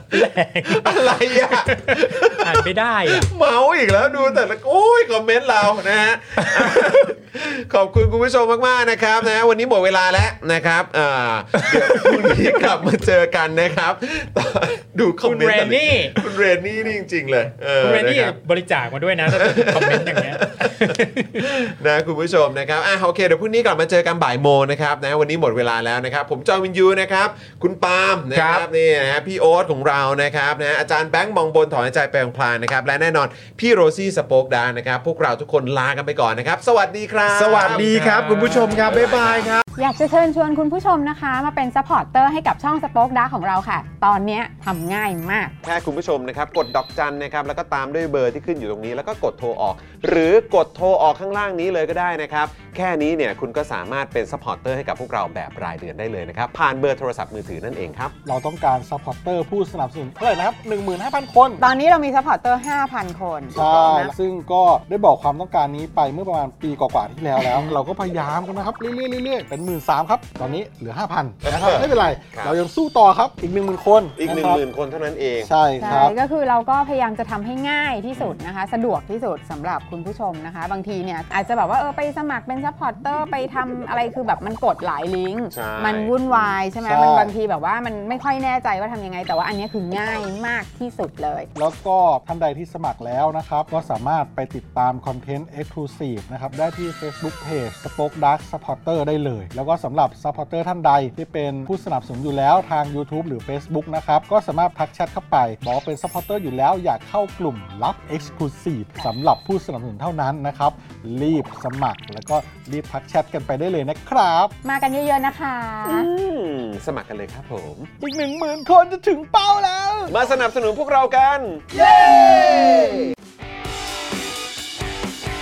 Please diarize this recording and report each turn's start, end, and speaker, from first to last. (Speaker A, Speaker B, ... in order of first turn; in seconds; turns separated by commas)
Speaker A: 0.1-3.3, Speaker B: 0.7-18.4, Speaker A: 15.2-16.2, Speaker A: 17.8-21.6, Speaker B: 19.3-39.5, Speaker C: 28.3-28.7, Speaker C: 37.3-39.6, Speaker D: 39.8-45.5, Speaker B: 45.6-58.1, Speaker E: 58.3-61.6, Speaker D: 61.6-64.1, Speaker E: 63.5-74.6, Speaker B: 63.6-64.0, Speaker D: 67.4-67.8, Speaker B: 71.5-72.6, Speaker B: 74.2-75.5, Speaker E: 75.4-76.2, Speaker D: 75.8-91.5, Speaker B: 85.5-86.6, Speaker E: 86.8-87.3, Speaker E: 91.5-114.5, Speaker D: 114.6-116.1, Speaker B: 115.8-117.9, Speaker E: 118.0-120.2, Speaker B: 120.1-123.0, Speaker E: 121.9-122.6